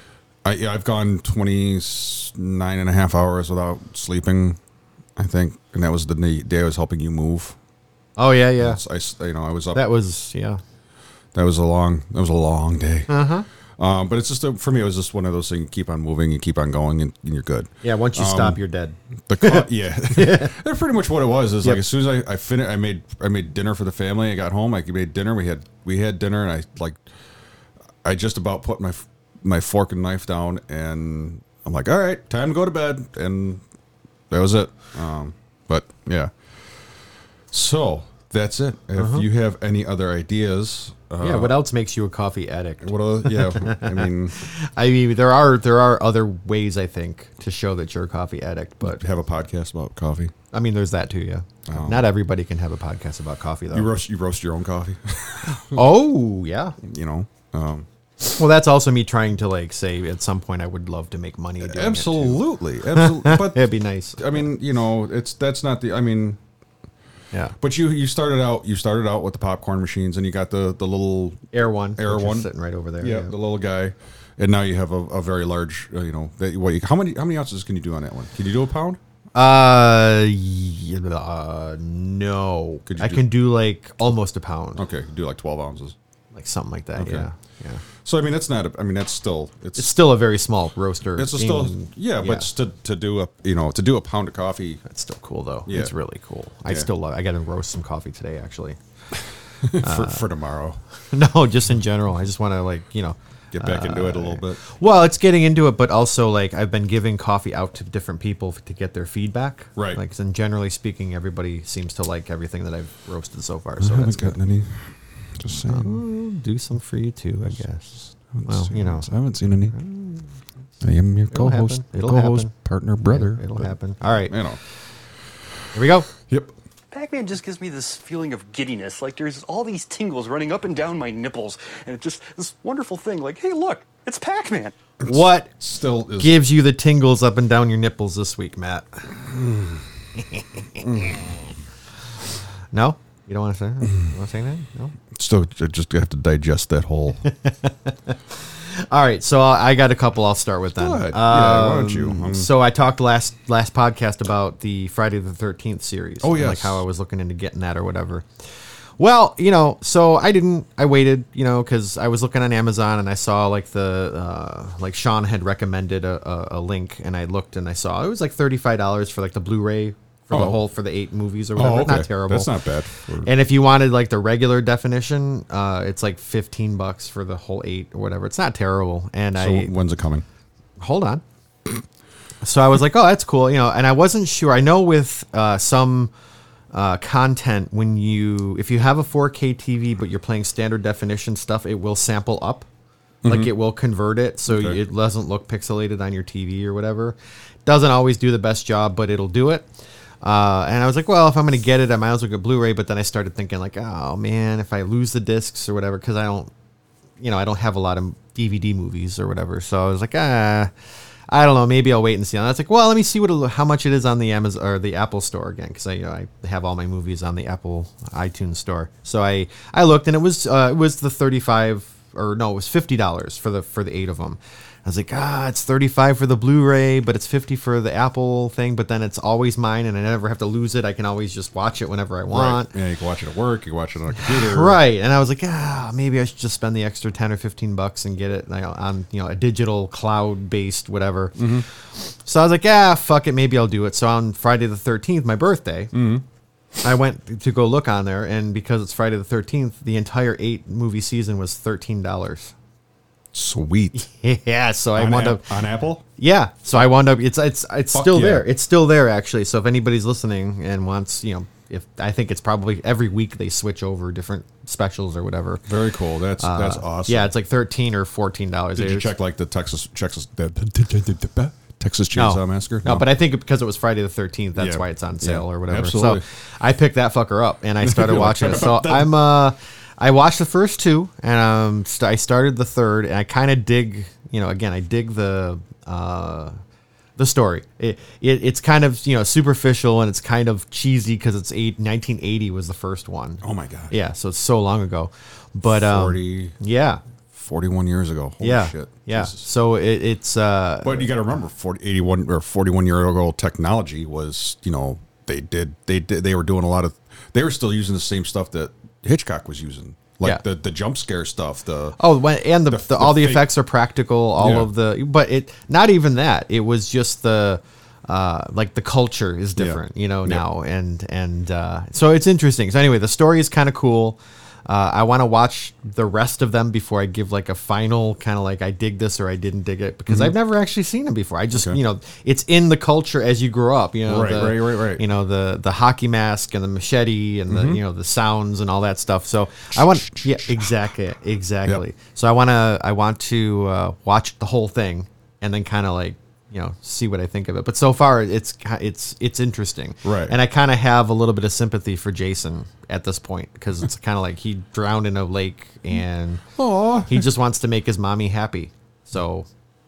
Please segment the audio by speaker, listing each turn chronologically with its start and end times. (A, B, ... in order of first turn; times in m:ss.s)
0:00.4-0:04.6 A
0:05.2-0:07.6 A
0:08.2-0:08.8 B
0:08.6-0:09.8 A
0:09.7-0:10.6 B
0:11.3-0:13.1 A
0:13.1-0:13.5 B
0:13.8-0:18.6 A
0:17.8-0:20.6 B
0:19.3-0:27.0 A
0:28.0-0:33.6 A
0:34.3-0:36.3 A
0:37.5-0:41.5 A
0:39.0-0:39.3 B
0:41.2-0:49.0 B
0:42.8-0:44.4 A
0:48.8-0:50.3 A
0:50.5-0:53.9 B
0:51.7-0:52.1 A
0:53.7-0:55.8 A
0:55.7-0:56.8 B
0:56.8-0:57.9 A
0:58.2-1:04.3 B
1:01.6-1:06.4 A
1:07.6-1:12.5 A
1:11.5-1:13.3 B
1:13.0-1:19.0 A
1:19.4-1:24.8 B
1:22.9-1:23.2 A
1:24.8-1:26.0 A
1:26.3-1:27.8 B
1:27.0-1:27.3 A
1:28.0-1:29.9 A
1:29.8-1:32.5 B
1:31.2-1:34.8 A
1:34.8-1:38.8 B
1:35.7-1:35.9 A
1:39.6-1:40.8 A
1:39.8-1:40.2 B
1:41.1-1:54.4 B
1:43.5-1:44.6 A
1:53.8-1:56.0 A
1:55.6-1:59.1 B
1:58.3-1:59.8 A
1:59.7-2:00.3 B
2:00.8-2:03.7 A
2:01.3-2:02.5 B
2:03.1-2:04.4 B
2:04.3-2:04.6 A
2:05.7-2:06.1 B
2:06.3-2:06.5 A
2:06.9-2:14.8 C
2:15.0-2:16.4 A
2:15.0-2:15.5 B
2:16.2-2:19.1 B
2:20.2-2:21.2 B
2:20.8-2:21.3 A
2:22.7-2:25.0 B
2:25.1-2:27.3 A
2:27.2-2:52.6 B
2:30.8-2:32.5 A
2:36.2-2:36.8 A
2:50.3-2:50.6 A
2:51.6-2:53.3 A
2:53.2-2:59.7 B
2:59.4-3:00.2 A
3:00.8-3:01.2 B
3:02.4-3:06.1 B
3:06.7-3:12.7 B
3:13.2-3:13.5 A
3:13.2-3:19.7 B
3:14.5-3:14.8 A
3:20.2-3:26.5 B
3:27.2-3:30.7 B
3:31.3-3:52.7 B
3:52.3-3:54.8 A
3:54.2-4:05.9 B
4:01.4-4:01.6 A
4:05.9-4:06.2 A
4:06.8-4:12.5 B
4:13.3-4:14.0 A
4:13.9-4:15.5 B
4:15.0-4:16.0 A
4:16.2-4:25.6 B
4:17.9-4:18.5 A
4:25.7-4:27.3 A
4:26.4-4:29.1 B
4:28.8-4:33.1 A
4:32.1-4:46.6 B
4:34.6-4:36.2 A
4:37.8-4:39.1 A
4:47.2-4:57.0 B
4:53.4-4:53.9 A
4:55.7-4:56.6 A
4:57.3-4:59.4 A
4:58.4-5:01.1 B
5:00.8-5:12.0 A
5:12.0-5:56.4 B
5:12.7-5:13.5 A
5:14.4-5:14.7 A
5:19.6-5:20.4 A
5:30.1-5:30.4 A
5:34.1-5:35.0 A
5:37.5-5:37.8 A
5:50.0-5:50.4 A
5:56.6-5:57.3 A
5:57.1-5:59.5 B